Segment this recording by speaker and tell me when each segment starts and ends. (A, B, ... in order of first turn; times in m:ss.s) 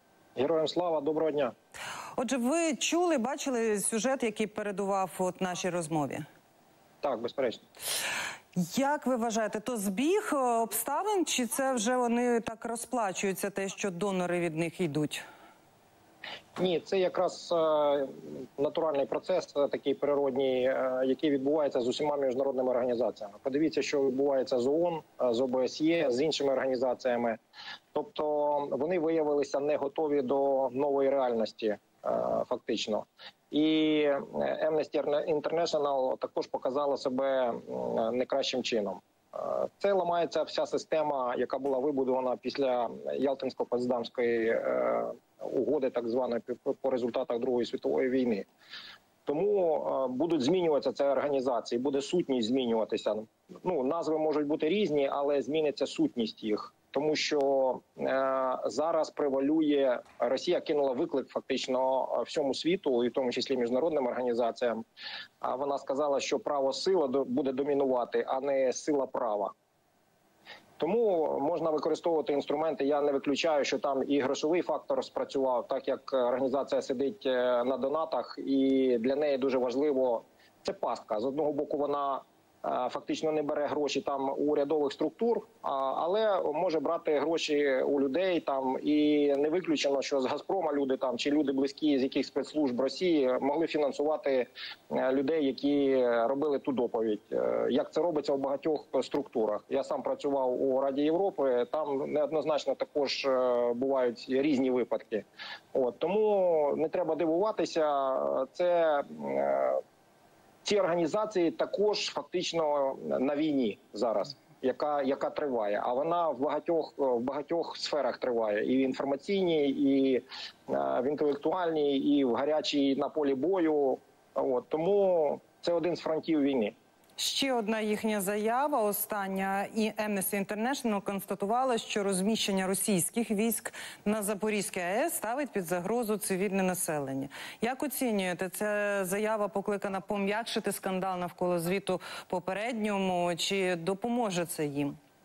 0:00.4-0:01.5 A
0:02.2-0:06.3 B
0:07.0-0:07.6 A
0:08.6-0:15.2 B
0:16.6-0:27.4 A
0:27.9-0:48.5 A
0:49.3-1:04.8 A
1:05.4-1:09.5 A
1:10.8-1:49.8 A
1:50.6-2:06.8 A
2:07.2-2:25.0 B